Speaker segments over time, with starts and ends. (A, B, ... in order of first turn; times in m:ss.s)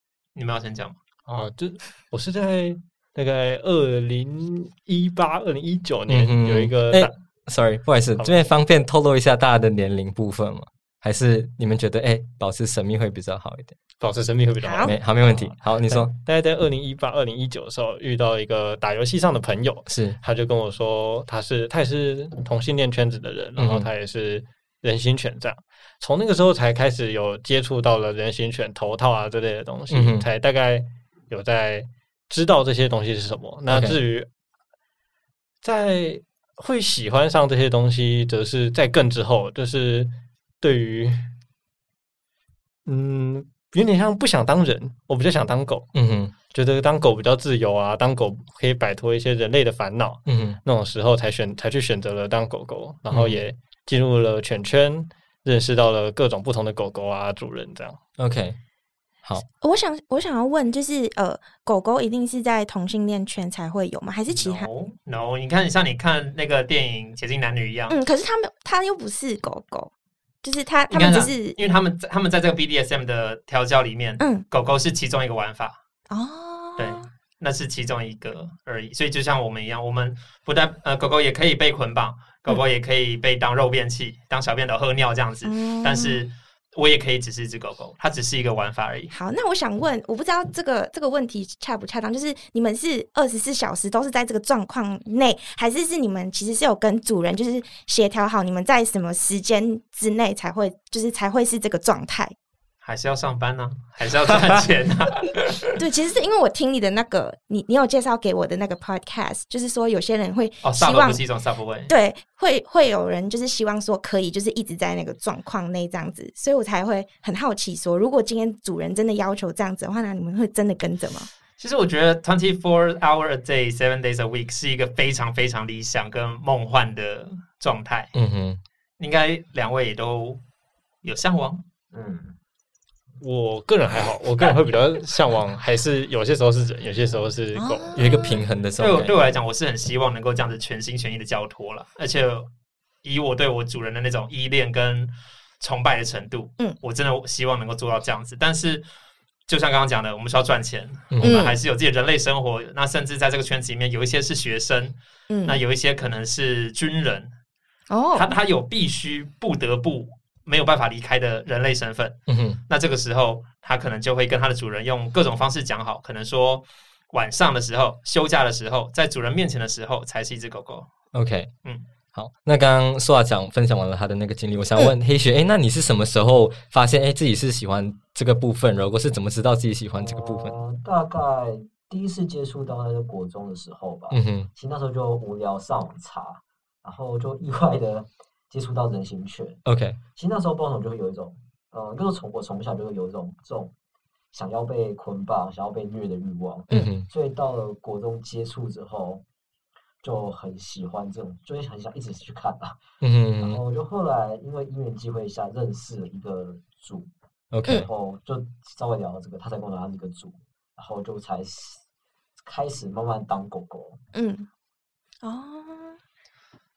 0:00.3-0:01.0 A
0:01.2-0:07.1 B
0:06.1-0:13.8 C
0:14.0-0:34.3 B
0:14.6-0:14.9 D
0:14.8-0:16.1 C
0:19.9-0:20.2 C
0:23.6-0:23.9 C
0:29.9-0:30.2 C
0:33.7-0:34.0 C
0:35.6-0:41.3 B
0:42.8-0:45.9 B
0:45.9-0:46.3 C
0:46.5-0:58.0 B
0:50.2-0:50.6 C
0:53.1-0:53.4 C
0:58.2-0:58.6 C
0:59.6-1:04.7 D
1:04.3-1:08.0 A
1:07.9-1:09.9 D
1:10.4-1:11.6 D
1:10.9-1:15.8 A
1:16.1-1:17.1 D
1:16.8-1:29.1 A
1:25.4-1:26.2 D
1:29.1-1:42.3 D
1:42.8-1:45.8 A
1:45.8-1:51.2 D
1:50.6-1:51.9 A
1:51.9-2:01.3 D
2:01.6-2:08.1 A
2:08.1-2:08.6 C
2:09.0-2:10.4 A
2:11.0-2:11.6 A
2:11.9-2:12.3 E
2:13.2-2:18.0 B
2:17.5-2:18.4 D
2:17.9-2:19.1 C
2:18.8-2:22.5 A
2:23.0-2:28.8 A
2:29.5-2:37.3 A
2:31.2-2:31.6 D
2:35.3-2:35.6 D
2:37.9-2:38.3 D
2:38.1-2:42.2 A
2:42.3-2:42.6 C
2:42.7-2:50.9 A
2:51.1-2:51.5 C
2:52.1-3:00.6 C
3:00.0-3:09.6 E
3:04.1-3:04.5 C
3:09.6-3:10.0 C
3:10.2-3:13.7 E
3:14.3-3:19.2 E
3:16.7-3:17.1 C
3:20.0-3:22.8 E
3:23.0-3:23.6 C
3:23.4-3:27.1 E
3:27.5-3:27.9 C
3:27.7-3:31.8 E
3:32.4-3:34.0 E
3:34.1-3:34.5 D
3:35.2-3:36.0 D